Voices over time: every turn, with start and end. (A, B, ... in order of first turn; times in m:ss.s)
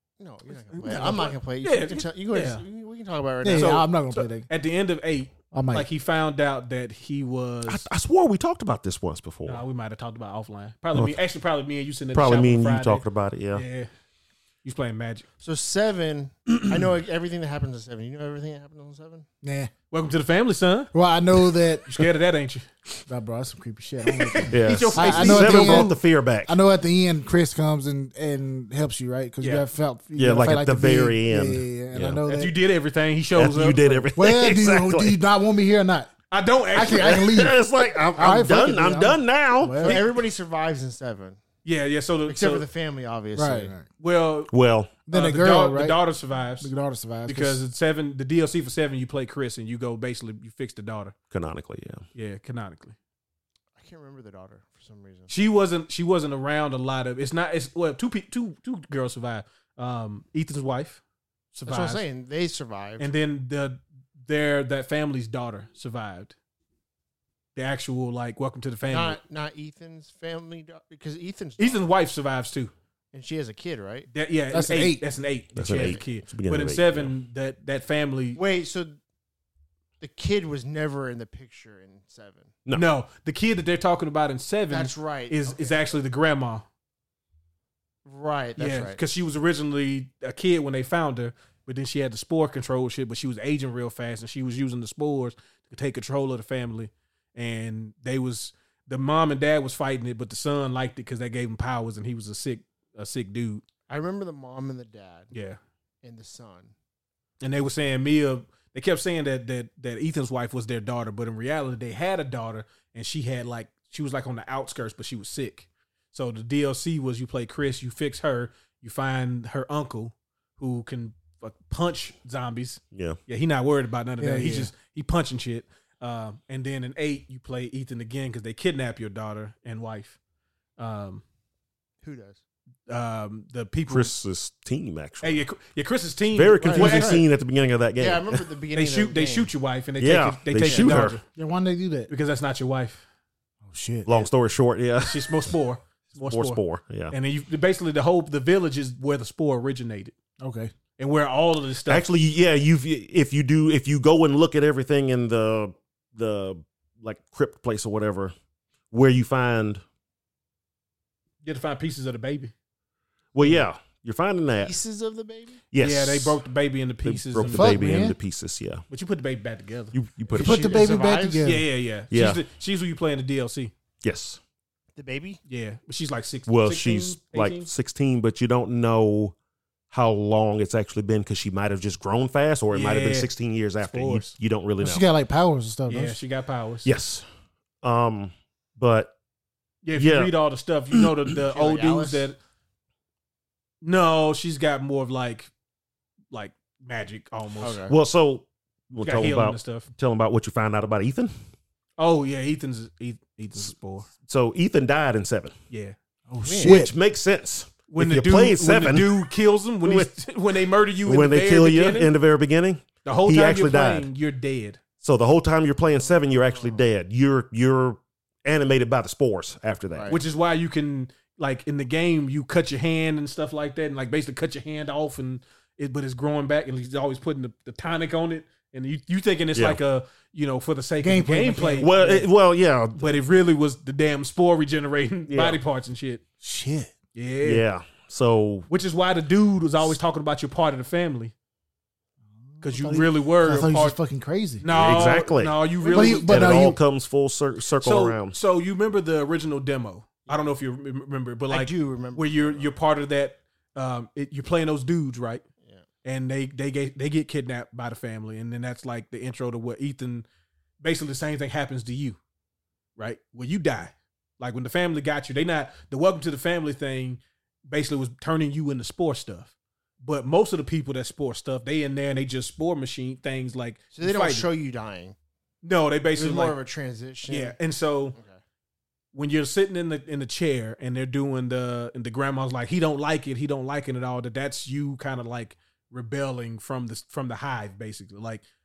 0:00.2-0:03.8 A
0:00.7-0:02.6 B
0:03.4-0:04.5 C
0:03.5-0:07.9 B
0:05.5-0:05.9 C
0:07.7-0:09.6 D
0:09.5-0:13.9 B
0:12.1-0:13.6 D
0:14.6-0:15.3 B
0:15.4-0:19.3 A
0:19.4-0:19.7 C
0:19.9-0:20.9 B
0:20.9-0:22.1 C
0:21.8-0:22.7 B
0:23.1-0:32.6 C
0:24.0-0:26.0 B
0:24.5-0:26.6 D
0:29.4-0:29.7 B
0:30.2-0:32.2 D
0:32.3-0:34.1 B
0:33.4-0:35.2 D
0:34.2-0:36.1 C
0:36.3-0:37.3 B
0:36.7-0:40.0 C
0:37.0-0:40.1 D
0:39.8-0:41.4 A
0:41.6-0:42.7 B
0:42.3-0:43.7 A
0:43.4-0:43.9 C
0:44.0-0:44.5 B
0:44.5-0:44.9 D
0:45.1-0:46.0 C
0:45.1-0:46.7 B
0:46.6-0:47.6 C
0:47.3-0:51.1 B
0:51.3-0:52.0 D
0:52.2-0:53.0 B
0:53.8-0:55.3 A
0:55.3-1:01.0 B
1:01.5-1:02.0 B
1:01.7-1:03.1 A
1:03.0-1:06.4 B
1:07.6-1:09.2 B
1:08.9-1:11.8 A
1:11.6-1:12.7 B
1:13.1-1:14.1 A
1:14.1-1:18.4 B
1:14.5-1:15.0 C
1:15.6-1:17.1 D
1:15.7-1:16.0 A
1:18.4-1:19.0 A
1:20.0-1:22.5 A
1:22.7-1:26.6 B
1:24.7-1:26.0 A
1:28.0-1:29.0 A
1:28.6-1:43.6 B
1:43.9-1:45.3 A
1:45.3-1:45.6 B
1:46.0-1:46.7 A
1:47.4-2:10.2 B
2:02.9-2:03.2 D
2:04.2-2:04.7 C
2:10.8-2:11.2 B
2:12.0-2:12.4 A
2:12.9-2:14.1 B
2:13.9-2:15.4 D
2:15.2-2:17.2 B
2:16.3-2:18.4 D
2:16.7-2:17.3 A
2:18.0-2:19.5 A
2:18.7-2:21.2 B
2:20.0-2:21.2 D
2:20.6-2:20.9 A
2:21.4-2:22.1 C
2:22.1-2:23.0 B
2:23.6-2:24.1 C
2:24.1-2:25.5 D
2:25.0-2:30.2 B
2:26.2-2:27.2 D
2:30.4-2:30.7 C
2:31.0-2:32.1 B
2:31.9-2:38.3 D
2:38.9-2:39.8 D
2:41.4-2:42.5 B
2:43.3-2:44.8 D
2:44.6-2:45.6 A
2:45.7-2:46.4 D
2:45.8-2:47.7 B
2:47.0-2:48.8 D
2:47.5-2:48.2 C
2:48.9-2:50.0 B
2:49.9-2:50.9 D
2:50.3-2:51.6 C
2:50.3-2:51.6 A
2:50.9-2:53.7 B
2:52.1-2:52.4 D
2:54.0-2:54.4 D
2:55.0-2:55.4 A
2:55.5-2:57.7 B
2:56.5-2:59.4 D
2:59.9-3:05.0 D
3:02.7-3:03.3 B
3:03.8-3:04.3 B
3:04.8-3:06.2 C
3:05.9-3:06.9 B
3:06.8-3:07.3 D
3:07.8-3:09.1 D
3:09.8-3:12.4 B
3:10.0-3:10.3 D
3:11.5-3:12.3 A
3:13.8-3:15.5 B
3:16.3-3:17.8 B
3:17.6-3:18.0 A
3:17.9-3:21.3 D
3:19.0-3:19.9 B
3:22.0-3:24.1 B
3:24.2-3:25.6 D
3:25.7-3:26.0 B
3:26.3-3:26.9 C
3:26.4-3:26.8 A
3:26.6-3:29.3 D
3:27.9-3:32.1 B
3:29.8-3:30.1 D
3:31.0-3:34.1 D
3:33.0-3:34.8 B
3:35.0-3:40.1 D
3:35.9-3:36.8 A
3:39.9-3:40.2 A
3:40.1-3:52.0 B
3:51.0-3:52.3 C
3:51.8-3:53.1 D
3:53.0-3:56.2 B
3:55.3-3:55.6 D
3:56.4-3:56.9 C
3:57.2-3:57.6 B
3:57.4-3:58.7 D
3:58.7-4:01.3 B
4:02.6-4:04.6 C
4:02.6-4:04.0 B
4:04.6-4:06.7 B
4:04.7-4:08.4 D
4:05.9-4:06.8 C
4:07.8-4:15.4 B
4:11.5-4:12.8 A
4:16.0-4:20.2 B
4:20.8-4:22.2 B
4:23.0-4:34.5 B
4:33.9-4:35.2 A
4:35.6-4:36.6 B
4:36.2-4:37.6 A
4:37.3-4:38.2 B
4:38.2-4:38.4 A
4:39.1-4:48.4 B